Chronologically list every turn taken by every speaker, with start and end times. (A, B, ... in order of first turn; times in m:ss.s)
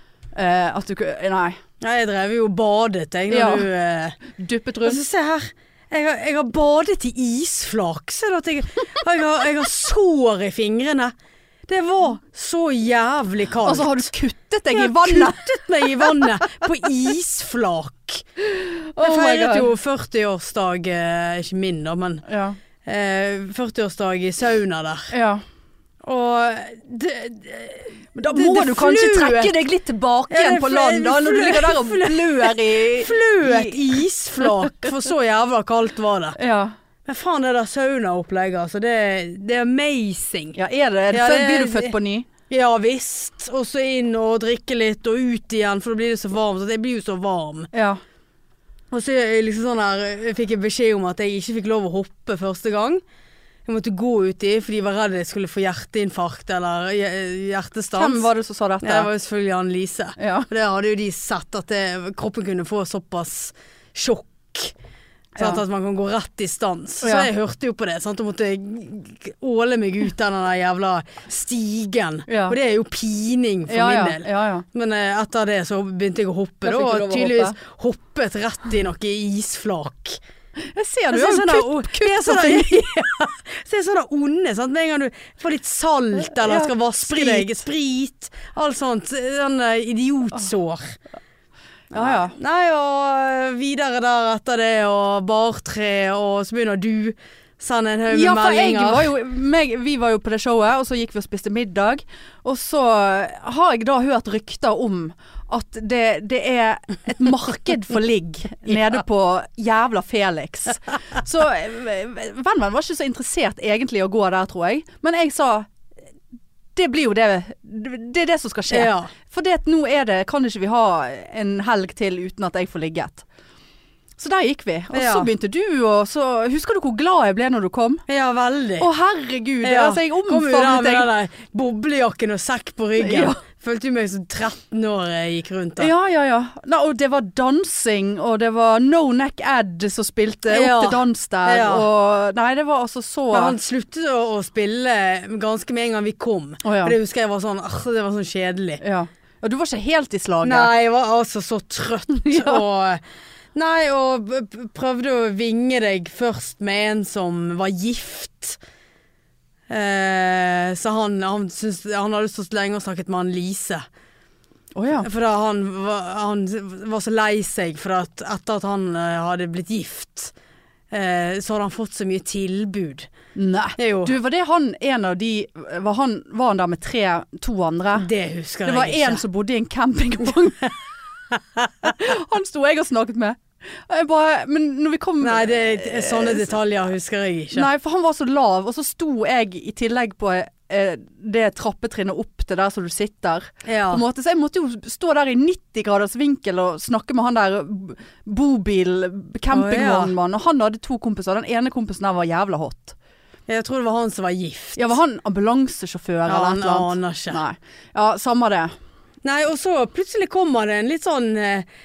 0:00.3-0:01.6 A
0:01.8-0:04.2 B
0:03.3-0:03.7 A
0:04.3-0:05.0 A
0:04.8-0:11.1 B
0:11.7-0:14.0 B
0:13.6-0:16.3 A
0:14.7-0:18.2 B
0:18.4-0:19.7 A
0:19.0-0:22.2 B
0:22.2-0:22.6 A
0:22.8-0:25.1 B
0:25.1-0:25.4 A
0:26.0-0:29.5 B
0:28.1-0:34.9 A
0:30.3-0:36.4 B
0:36.4-0:36.7 A
0:37.0-0:40.6 B
0:40.6-0:42.3 A
0:41.1-0:41.9 B
0:42.5-0:47.7 B
0:47.7-0:48.0 A
0:48.9-0:53.0 B
0:53.6-0:58.3 B
0:58.0-0:59.1 A
0:58.8-1:04.7 B
1:00.2-1:00.5 A
1:05.4-1:05.6 A
1:05.4-1:20.2 B
1:07.0-1:07.3 A
1:12.3-1:12.6 A
1:13.7-1:14.6 A
1:16.6-1:17.6 A
1:20.7-1:23.1 A
1:21.1-1:31.0 B
1:26.3-1:27.5 A
1:31.9-1:32.4 A
1:31.9-1:39.1 B
1:38.1-1:55.7 A
1:56.8-2:03.2 A
1:58.7-1:59.1 B
2:04.2-2:08.0 A
2:04.9-2:05.3 B
2:08.1-2:08.9 B
2:08.8-2:11.1 A
2:09.6-2:15.9 B
2:13.0-2:13.4 A
2:15.8-2:23.6 A
2:20.5-2:21.9 B
2:23.3-2:28.8 B
2:26.6-2:27.0 A
2:28.8-2:30.7 A
2:30.4-2:33.0 B
2:32.1-2:32.6 A
2:33.5-2:38.6 B
2:39.7-2:43.8 B
2:44.7-2:45.1 A
2:45.0-2:50.3 B
2:50.9-2:53.1 B
2:53.3-2:58.1 A
2:53.8-2:54.1 B
2:58.0-2:59.2 B
2:58.6-3:00.8 A
3:01.8-3:06.5 A
3:05.2-3:07.7 B
3:07.5-3:23.0 A
3:13.6-3:14.0 B
3:19.5-3:20.1 B
3:23.5-3:24.9 B
3:24.8-3:28.7 A
3:26.3-3:27.4 B
3:29.2-3:31.7 B